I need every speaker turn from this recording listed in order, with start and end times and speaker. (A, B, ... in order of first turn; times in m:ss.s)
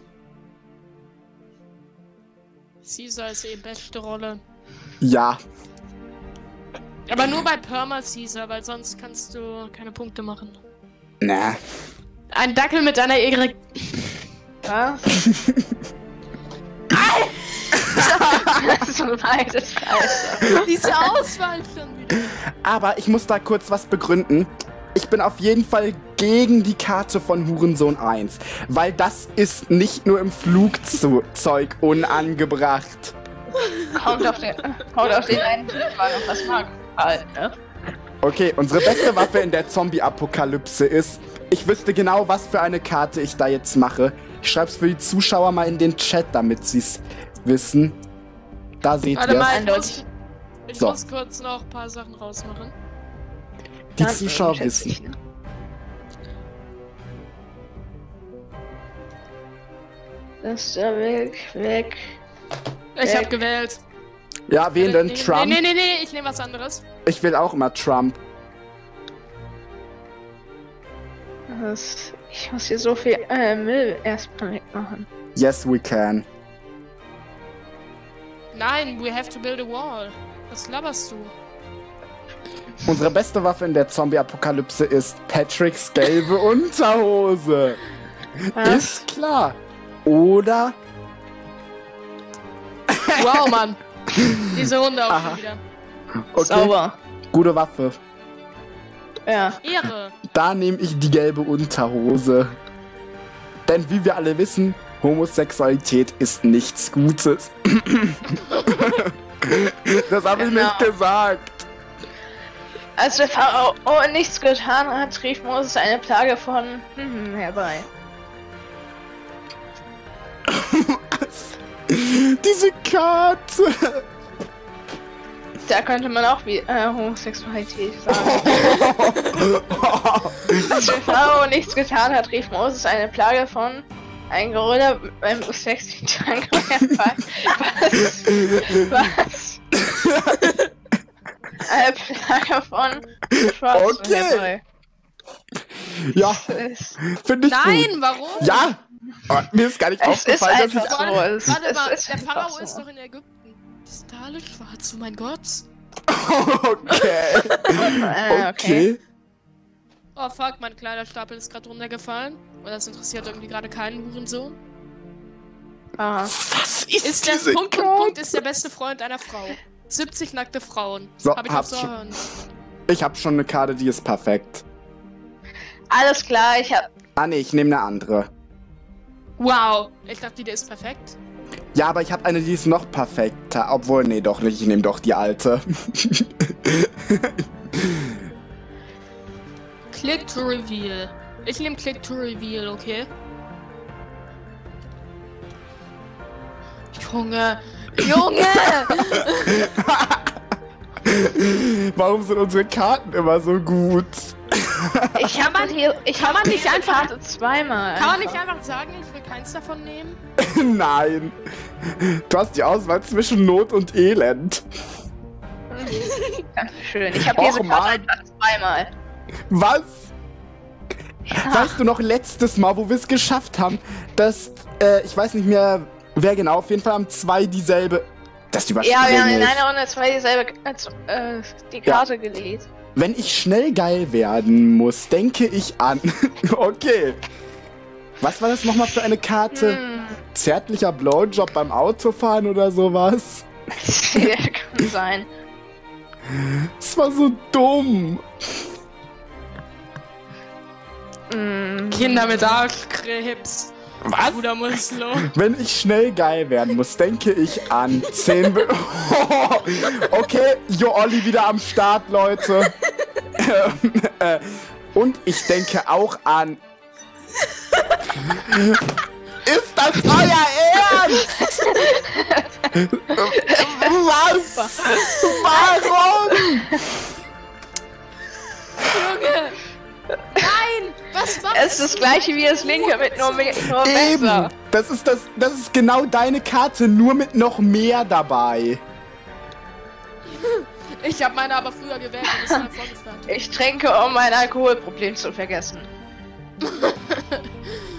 0:02.8-0:04.4 A
0:05.0-0:05.4 B
0:07.1-0:10.6 A
0:11.2-0:11.6 B
0:12.3-0:14.1 A
0:14.6-0:15.1 C
0:15.2-0:15.6 B
0:16.9-0:18.5 A
0:17.8-0:18.5 B
0:18.0-0:20.9 C
0:20.4-0:22.4 A
0:22.6-0:33.1 B
0:33.6-0:34.0 A
0:33.9-0:37.6 C
0:35.7-0:36.0 A
0:38.2-0:48.0 B
0:48.8-0:49.6 B
0:49.1-0:50.0 A
0:49.5-0:50.0 C
0:50.7-0:52.7 A
0:54.0-0:55.0 B
0:54.0-0:55.2 C
1:00.4-1:02.2 C
1:02.9-1:03.8 A
1:03.0-1:03.3 C
1:04.5-1:05.6 B
1:04.8-1:06.8 A
1:07.0-1:08.2 B
1:11.5-1:15.1 C
1:15.3-1:16.2 B
1:18.5-1:21.3 A
1:22.8-1:27.8 B
1:28.5-1:30.8 B
1:28.6-1:29.0 C
1:32.9-1:33.4 B
1:33.1-1:33.8 A
1:34.2-1:34.6 B
1:34.3-1:35.6 A
1:35.1-1:35.4 B
1:36.3-1:36.7 B
1:36.4-1:37.0 C
1:37.3-1:38.0 B
1:39.2-1:39.6 C
1:39.6-1:40.2 A
1:40.3-1:42.6 B
1:43.7-1:51.6 B
1:50.3-1:50.9 C
1:53.0-1:57.9 C
2:00.5-2:04.0 B
2:05.7-2:08.8 C
2:08.1-2:10.9 B
2:10.7-2:19.6 C
2:18.2-2:18.9 B
2:19.7-2:20.5 B
2:20.4-2:20.7 A
2:21.6-2:24.6 C
2:23.3-2:24.5 B
2:25.9-2:31.4 B
2:26.2-2:27.0 C
2:27.5-2:28.6 A
2:30.0-2:32.8 C
2:30.8-2:35.6 A
2:36.1-2:39.0 B
2:37.7-2:38.9 C
2:40.2-2:44.6 A
2:46.0-2:46.3 C
2:46.3-2:48.2 B
2:47.0-2:52.2 A
2:51.2-2:51.9 B
2:52.9-2:54.6 B
2:55.9-2:56.9 C
2:57.2-2:58.3 B
2:59.4-3:01.2 A
3:01.7-3:08.2 B
3:09.9-3:13.1 A
3:16.9-3:19.7 A
3:19.2-3:20.3 B
3:21.0-3:25.2 B
3:25.1-3:28.4 C
3:25.3-3:27.1 A
3:28.0-3:30.2 A
3:30.4-3:34.6 B
3:35.7-3:38.9 C
3:35.9-3:36.4 A
3:37.3-3:38.0 B
3:39.5-3:40.1 B
3:41.3-3:41.8 C
3:41.4-3:49.6 B
3:48.8-3:52.7 C
3:53.0-3:57.2 B
3:58.2-4:03.5 B
3:59.5-4:00.2 C
4:03.8-4:05.3 C
4:06.8-4:08.2 B
4:11.3-4:12.5 C
4:11.9-4:13.7 A
4:14.0-4:14.4 B
4:14.2-4:15.3 A
4:15.2-4:22.7 B
4:18.1-4:18.4 A
4:23.4-4:26.6 B
4:28.2-4:28.8 B
4:29.4-4:31.8 B
4:31.1-4:31.7 A
4:31.7-4:33.9 C
4:32.7-4:36.8 B
4:34.5-4:35.7 C
4:36.3-4:36.8 C
4:38.8-4:39.6 A
4:40.3-4:43.7 A
4:41.5-4:44.5 C
4:43.8-4:48.8 B
4:50.2-4:53.4 A
4:52.4-4:52.6 C
4:53.3-4:55.9 C
4:56.6-4:57.7 A